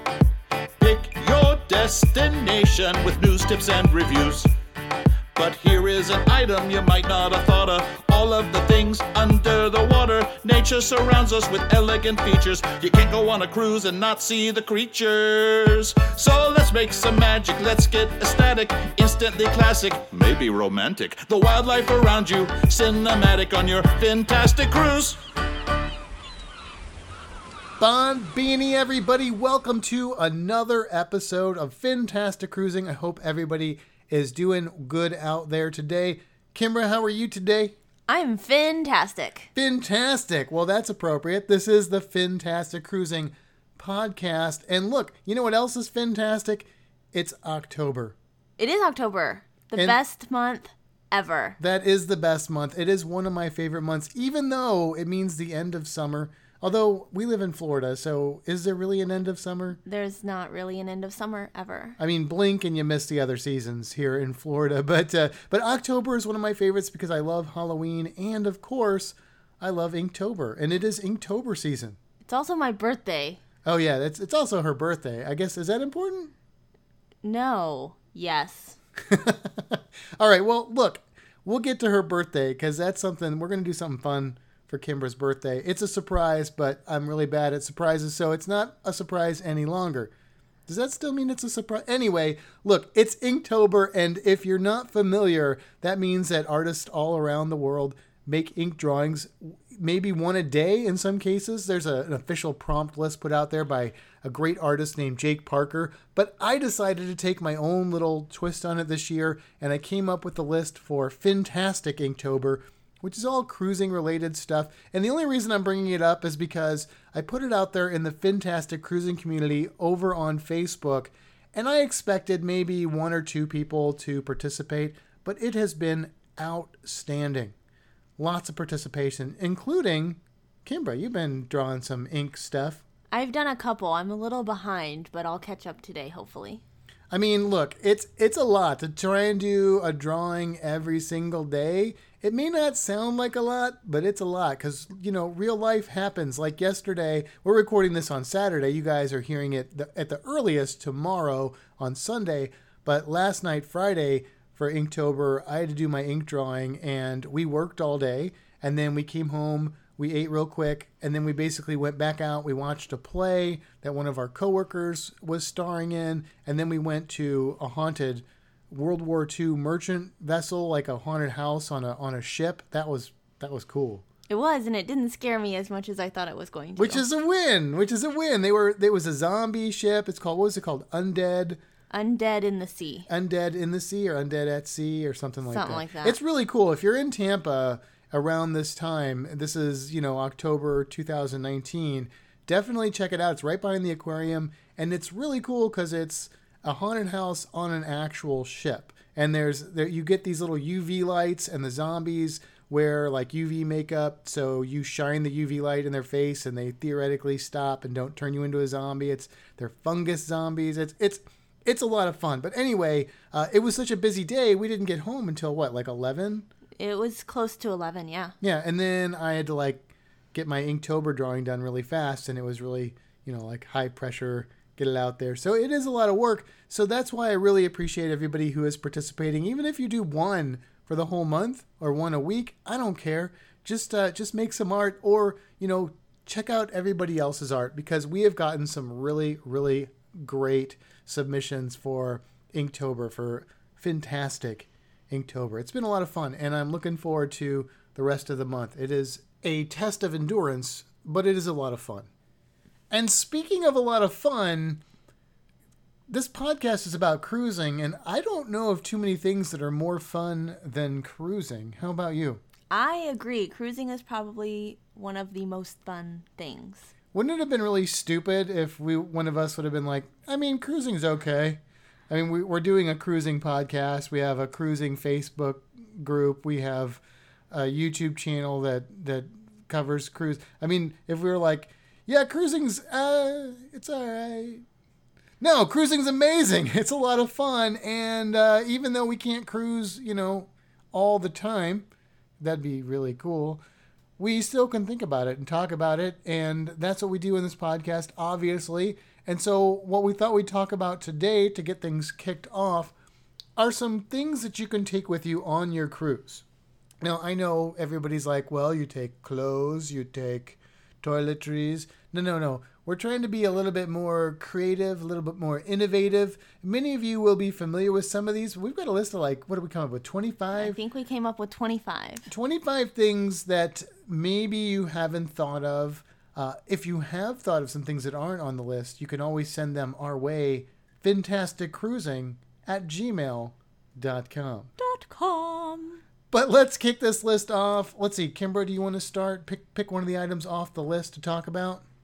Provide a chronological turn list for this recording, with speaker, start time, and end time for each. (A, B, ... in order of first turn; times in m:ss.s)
0:00.8-0:04.5 A
0:05.3-0:25.2 A
0:27.8-0:37.8 B
0:38.1-0:39.5 C
0:39.5-0:48.2 B
0:48.6-0:51.6 C
0:51.6-0:59.8 B
0:59.8-1:02.0 C
1:02.0-1:12.0 B
1:12.2-1:13.4 C
1:13.6-1:16.3 B
1:17.2-1:18.8 C
1:19.0-1:30.1 B
1:30.7-2:07.5 B
2:08.2-2:12.8 B
2:13.1-2:16.6 C
2:17.1-2:54.0 B
2:54.3-2:57.0 C
2:56.8-3:01.6 B
3:01.9-3:03.1 C
3:03.1-3:36.5 B
3:05.5-3:06.2 C
3:36.8-3:38.3 C
3:38.4-4:12.1 B
4:12.9-4:14.8 B
4:16.1-4:22.4 B
4:22.7-4:26.9 C
4:27.1-4:44.6 B
4:45.4-4:51.9 B
4:52.4-4:53.6 B
4:54.2-5:02.9 B
5:03.6-5:06.4 B
5:07.0-5:20.8 B
5:20.5-5:22.3 C
5:22.3-5:34.7 B
5:34.8-5:36.0 C
5:36.3-5:41.8 B